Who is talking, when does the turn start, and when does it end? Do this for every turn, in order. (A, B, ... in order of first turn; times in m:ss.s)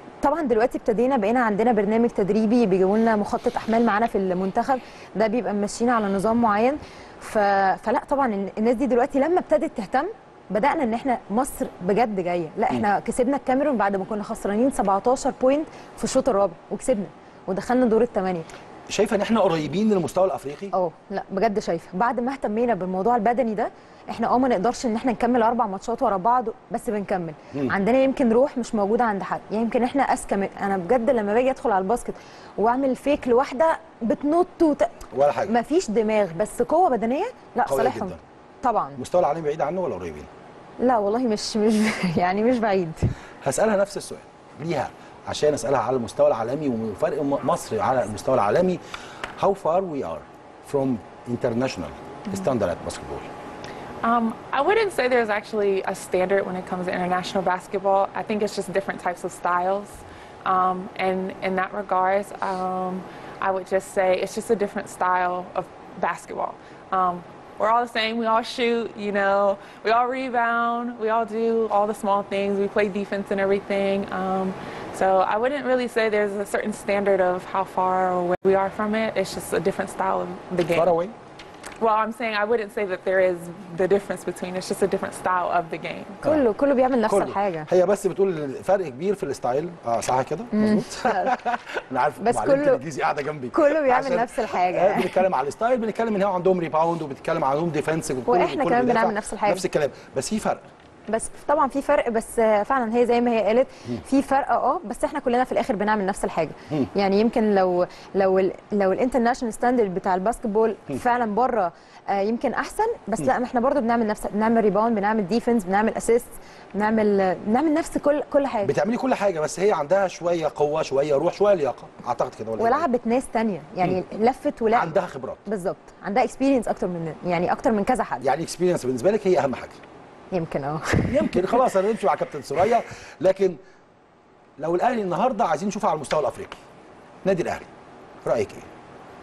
0:00.2-0:18.5 A
0:18.9-0:20.7 B
0:20.7-0:39.0 A
0:35.1-0:35.6 B
0:37.7-0:38.2 B
0:39.0-0:40.3 B
0:40.8-0:43.1 A
0:43.4-0:48.8 B
0:49.4-0:53.3 B
0:54.0-1:20.9 C
1:20.7-1:21.1 B
1:21.8-1:26.2 C
1:26.2-1:27.7 A
1:27.1-1:40.7 B
1:30.5-1:31.4 A
1:32.2-1:32.8 A
1:33.5-1:35.2 A
1:38.3-1:39.6 A
1:41.1-1:58.7 A
1:58.6-2:02.9 B
2:02.6-2:05.0 A
2:04.7-2:05.5 B
2:05.5-2:08.3 A
2:08.2-2:09.8 B
2:10.3-2:11.6 A
2:11.1-2:13.6 B
2:14.6-2:16.6 B
2:17.2-2:17.7 B
2:18.2-2:18.7 B